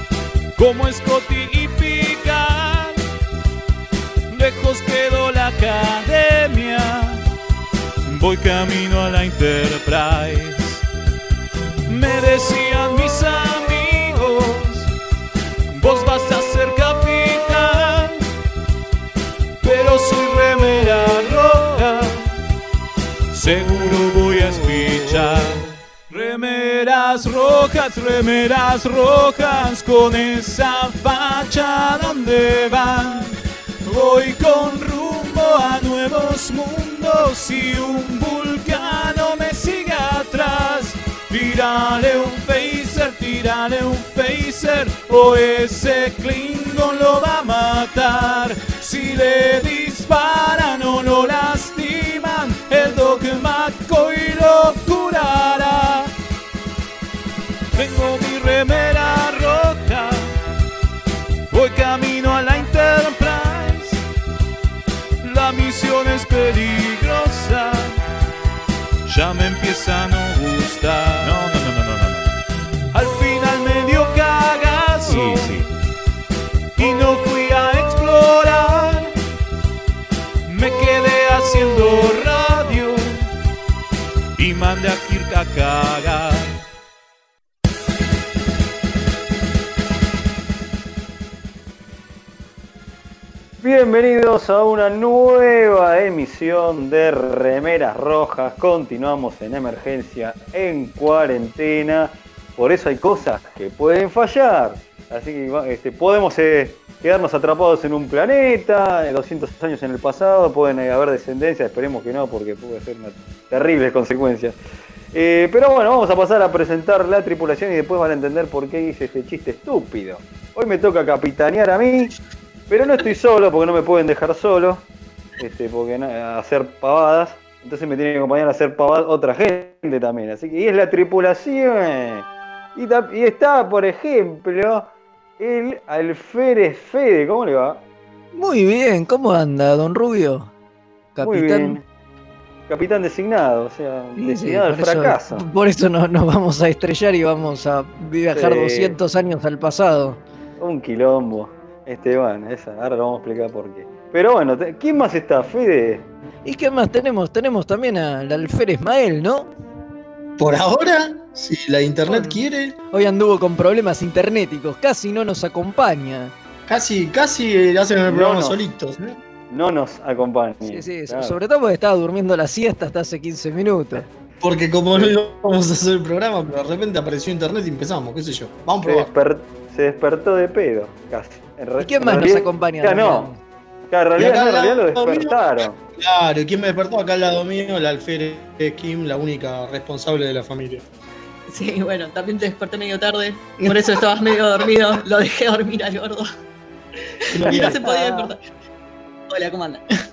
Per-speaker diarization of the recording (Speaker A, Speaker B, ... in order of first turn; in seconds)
Speaker A: 0.6-3.0, 4.3-7.2, 8.0-10.8, 11.9-14.9, 15.7-18.2, 19.6-22.3, 23.3-56.1, 57.7-60.3, 61.5-64.0, 65.2-68.0, 69.1-72.3, 72.9-75.7, 76.8-79.1, 80.5-83.3, 84.4-86.6
Speaker B: 93.6-114.5, 115.1-122.2, 122.7-124.8, 125.4-137.8, 141.2-141.8, 142.7-145.5, 148.3-149.0, 150.6-156.1, 168.1-168.6, 169.5-171.4, 178.8-183.3, 183.9-185.8
Speaker C: 138.3-140.5, 141.2-141.8, 144.2-150.2, 156.4-159.5, 162.1-166.3, 170.7-174.1, 181.8-183.4
Speaker D: 160.4-162.8, 166.7-169.2, 174.4-179.1, 184.2-190.9, 193.6-194.0, 197.3-198.3
Speaker E: 191.5-196.3, 197.4-198.4, 199.3-199.8